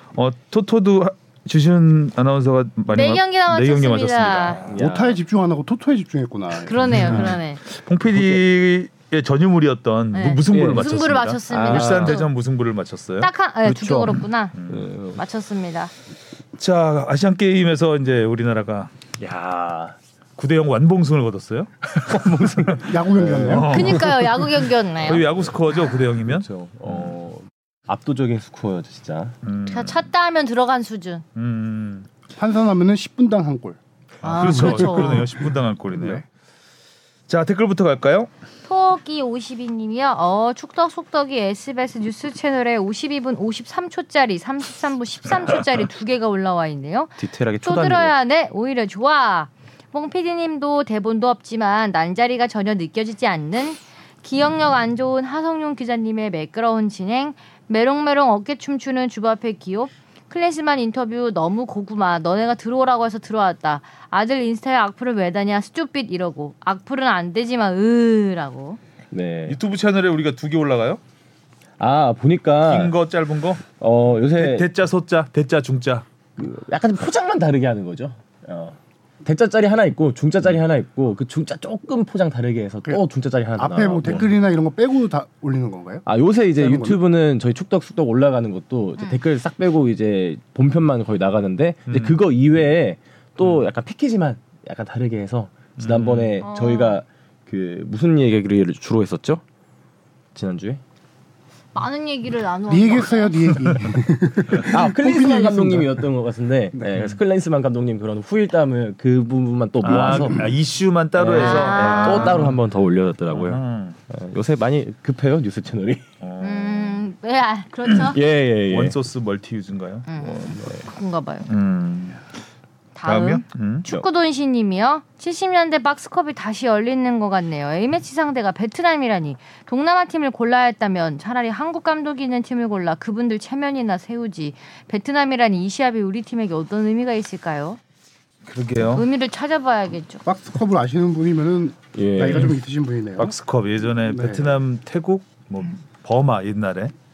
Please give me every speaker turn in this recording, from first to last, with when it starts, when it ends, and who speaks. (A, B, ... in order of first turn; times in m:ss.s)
0:00.1-0:04.8 A
0:02.9-0:04.6 B
0:04.7-0:05.2 C
0:04.7-0:07.3 D
0:06.6-0:07.6 B
0:06.9-0:13.3 A
0:08.1-0:08.4 C
0:10.1-0:12.3 B
0:10.5-0:10.8 C
0:11.5-0:12.2 C
0:13.2-0:14.6 B
0:13.6-0:14.2 D
0:14.5-0:14.9 A
0:14.7-0:15.2 C
0:15.1-0:15.9 B
0:16.6-0:18.9 A
0:19.2-0:20.0 C
0:20.4-0:24.4 A
0:22.0-0:29.4 C
0:22.8-0:23.7 D
0:23.6-0:25.2 B
0:25.0-0:27.2 A
0:29.4-0:30.0 A
0:29.7-0:31.2 B
0:31.3-0:32.1 A
0:32.4-0:33.8 D
0:34.2-0:35.3 B
0:34.2-0:36.2 A
0:34.4-0:35.4 D
0:35.9-0:36.2 D
0:37.3-0:38.3 A
0:38.7-1:08.8 B
0:47.2-0:48.1 C
1:09.1-1:09.6 C
1:09.5-1:11.0 A
1:11.8-1:12.9 C
1:12.7-1:13.6 A
1:13.6-1:14.7 C
1:14.4-1:16.0 A
1:16.4-1:24.3 C
1:23.6-1:27.0 D
1:26.0-1:39.4 C
1:31.9-1:32.2 A
1:33.4-1:33.6 A
1:35.8-1:36.4 A
1:36.4-1:37.0 B
1:40.3-1:40.8 C
1:41.7-1:43.5 B
1:42.7-1:46.0 D
1:44.5-1:50.5 C
1:49.8-1:52.6 A
1:51.1-1:56.0 C
1:51.3-1:52.5 B
1:53.3-1:54.0 A
1:56.2-1:57.0 A
1:56.4-1:58.2 B
1:58.1-1:59.0 C
1:58.7-2:00.1 A
2:00.1-2:01.5 B
2:00.2-2:00.8 C
2:01.5-2:02.2 A
2:03.0-2:17.8 B
2:03.0-2:03.9 A
2:18.4-2:19.1 A
2:18.9-2:20.2 B
2:20.2-2:23.3 D
2:21.9-2:22.5 C
2:22.2-2:22.5 A
2:23.2-2:26.9 A
2:24.1-2:24.6 D